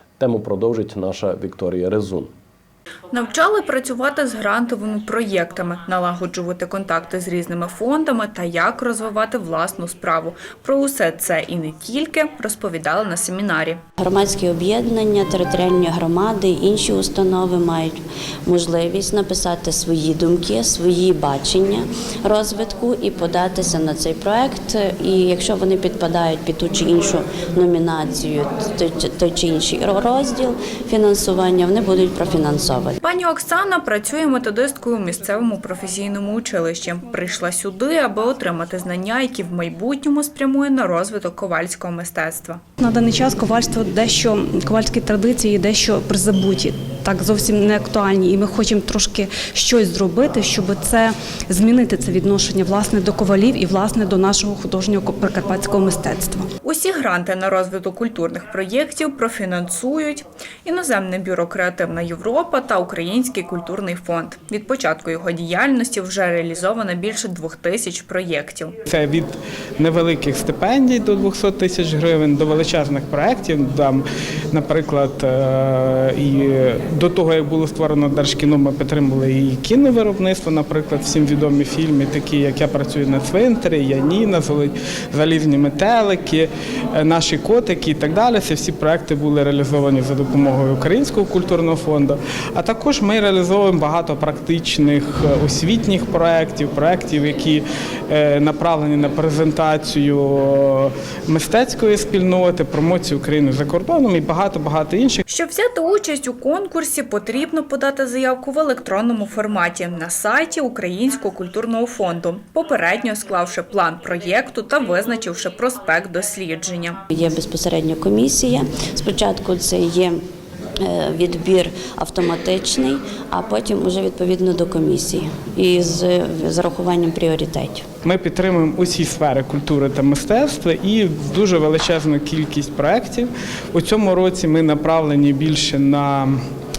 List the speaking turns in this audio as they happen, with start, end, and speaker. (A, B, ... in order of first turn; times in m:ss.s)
0:00.2-0:02.3 A
0:03.1-0:13.8 B
0:14.0-0:17.9 C
0:18.4-0:33.0 C
0:33.0-0:42.6 B
0:42.8-0:56.5 D
0:56.6-1:08.7 B
1:08.9-1:45.2 E
1:45.3-1:57.0 B
1:57.1-2:00.2 C
2:00.8-2:07.8 C
2:08.0-2:16.4 E